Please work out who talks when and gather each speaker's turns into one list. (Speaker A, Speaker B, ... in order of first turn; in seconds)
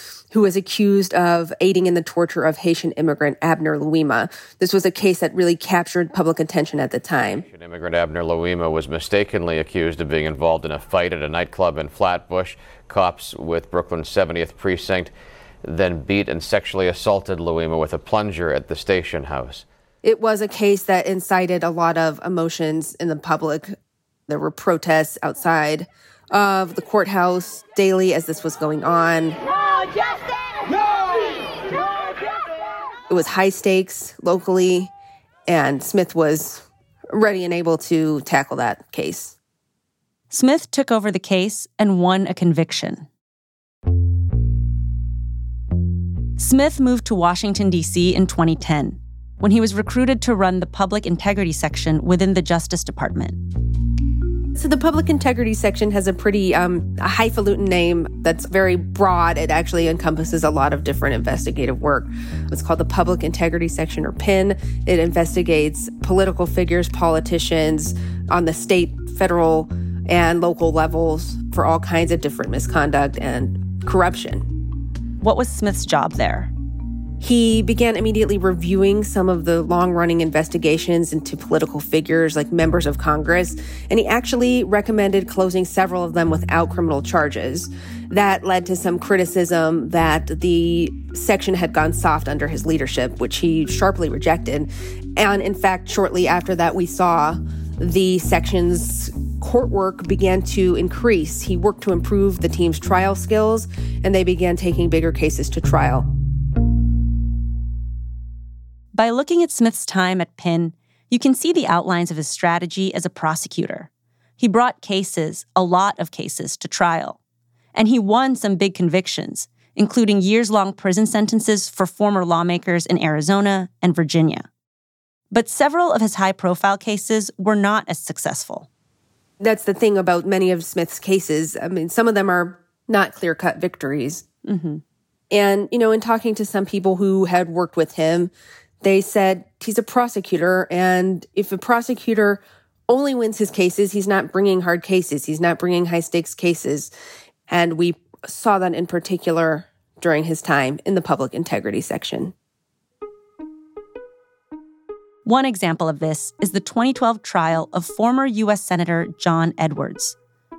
Speaker A: 0.3-7.4, 20.0-23.7, 24.3-29.4, 33.1-34.9, 35.5-39.3, 54.6-74.5, 77.2-106.1, 129.4-134.2, 135.3-138.3, 138.8-146.9, 147.5-152.3
Speaker B: 7.5-15.1, 15.6-19.6
Speaker C: 40.3-43.1, 46.4-53.4, 75.2-76.5, 108.9-117.2, 117.7-124.5, 125.3-128.7, 134.4-134.8, 155.2-160.2